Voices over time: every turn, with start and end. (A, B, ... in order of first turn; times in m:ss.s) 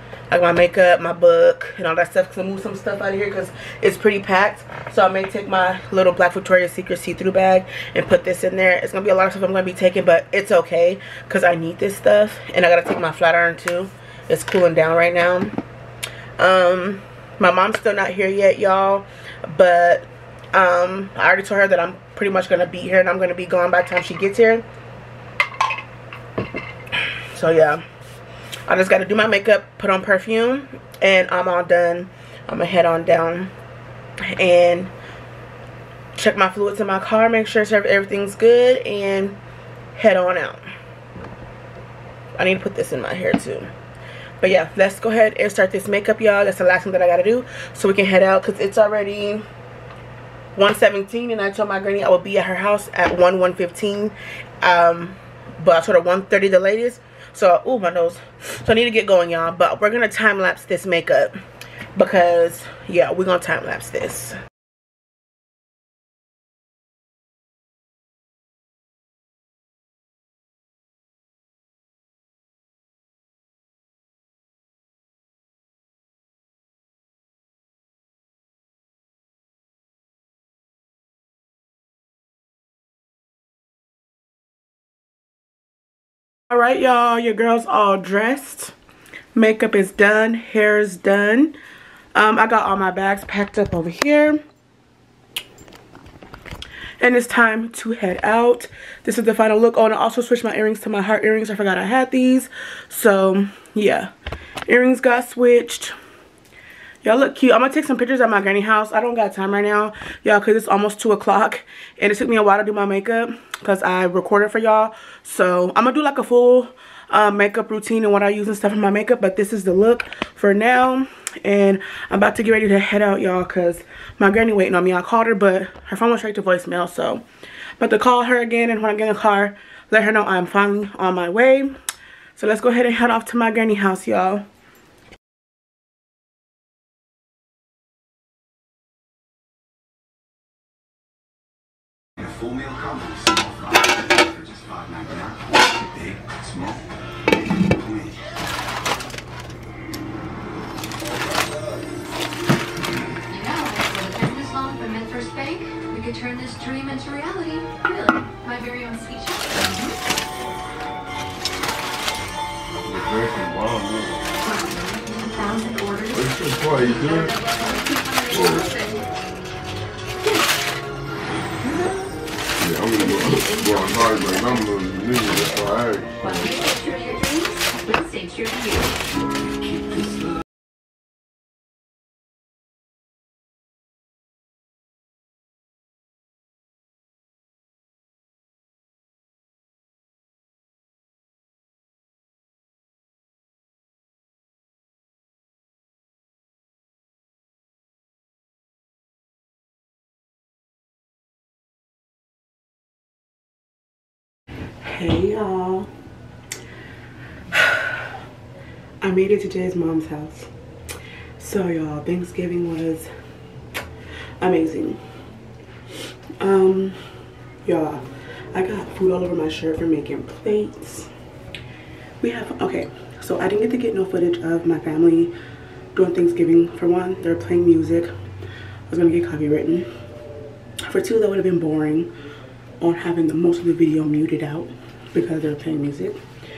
0:00.3-0:15.6 A
0:16.4-0:24.6 A
0:27.3-0:27.8 A
0:28.7-0:33.5 A
0:34.3-0:34.9 A
0:36.2-0:39.4 A
0:39.9-0:40.6 A
0:42.4-0:43.7 A
0:44.4-0:49.4 A
0:50.6-1:01.4 A
1:02.0-1:04.4 A
1:26.5-1:28.7 A
1:29.3-1:31.5 A
1:32.1-1:34.4 A
1:37.0-1:44.1 A
1:44.7-1:46.0 A
1:47.0-2:07.2 A
2:07.8-2:11.7 A
2:12.4-2:14.4 A
2:22.2-2:28.3 B
2:33.3-2:40.0 C
2:42.7-2:44.2 B
2:44.4-2:49.0 C
2:46.1-2:47.3 B
2:48.3-2:48.6 B
2:52.6-2:56.5 B
2:53.0-2:54.5 C
2:56.2-2:59.0 C
2:59.7-3:00.2 B
3:24.8-3:25.9 A
3:27.5-3:28.0 A
3:29.0-3:30.5 A
3:31.4-3:33.1 A
3:34.4-3:35.0 A
3:36.4-3:37.0 A
3:37.6-3:41.1 A
3:42.2-3:45.3 A
3:45.9-3:48.1 A
3:48.9-3:49.9 A
3:50.8-3:52.1 A
3:52.8-3:56.2 A